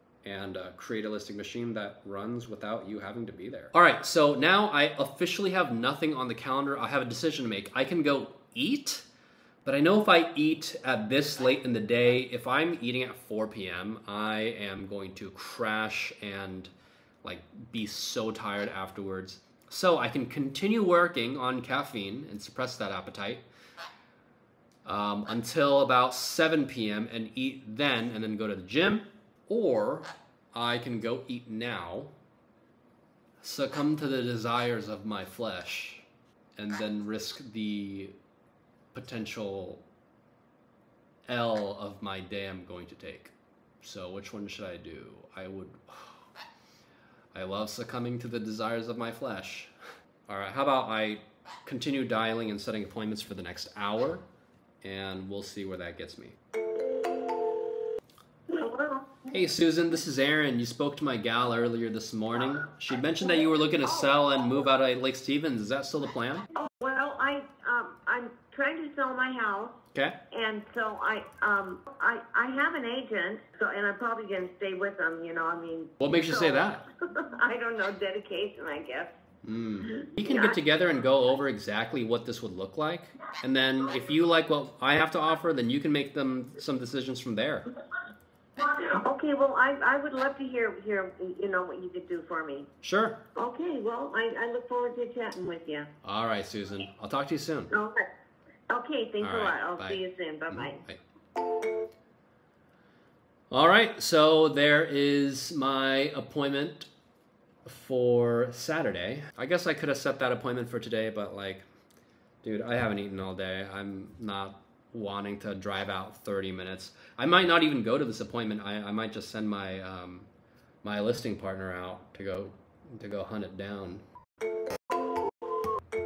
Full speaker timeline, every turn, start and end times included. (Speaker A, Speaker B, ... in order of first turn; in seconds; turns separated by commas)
Speaker A: 0.2-9.1, Speaker A: 9.6-16.7, Speaker A: 17.2-23.4, Speaker A: 24.8-32.1, Speaker A: 33.4-36.0, Speaker A: 36.6-38.1, Speaker A: 38.9-39.8, Speaker A: 41.3-46.2, Speaker A: 47.3-49.7, Speaker A: 50.3-54.2, Speaker A: 54.8-56.4, Speaker B: 58.5-59.2, Speaker A: 59.3-66.5, Speaker B: 66.5-69.8, Speaker B: 70.3-79.2, Speaker A: 76.0-76.8, Speaker A: 79.4-87.6, Speaker B: 80.2-80.5, Speaker B: 88.7-92.7, Speaker A: 92.8-93.2, Speaker B: 93.3-95.9, Speaker A: 96.0-97.7, Speaker B: 97.7-98.1, Speaker B: 98.7-100.8, Speaker A: 99.2-101.0, Speaker A: 103.5-106.9, Speaker A: 107.7-111.6, Speaker A: 112.4-120.3, Speaker A: 120.8-124.0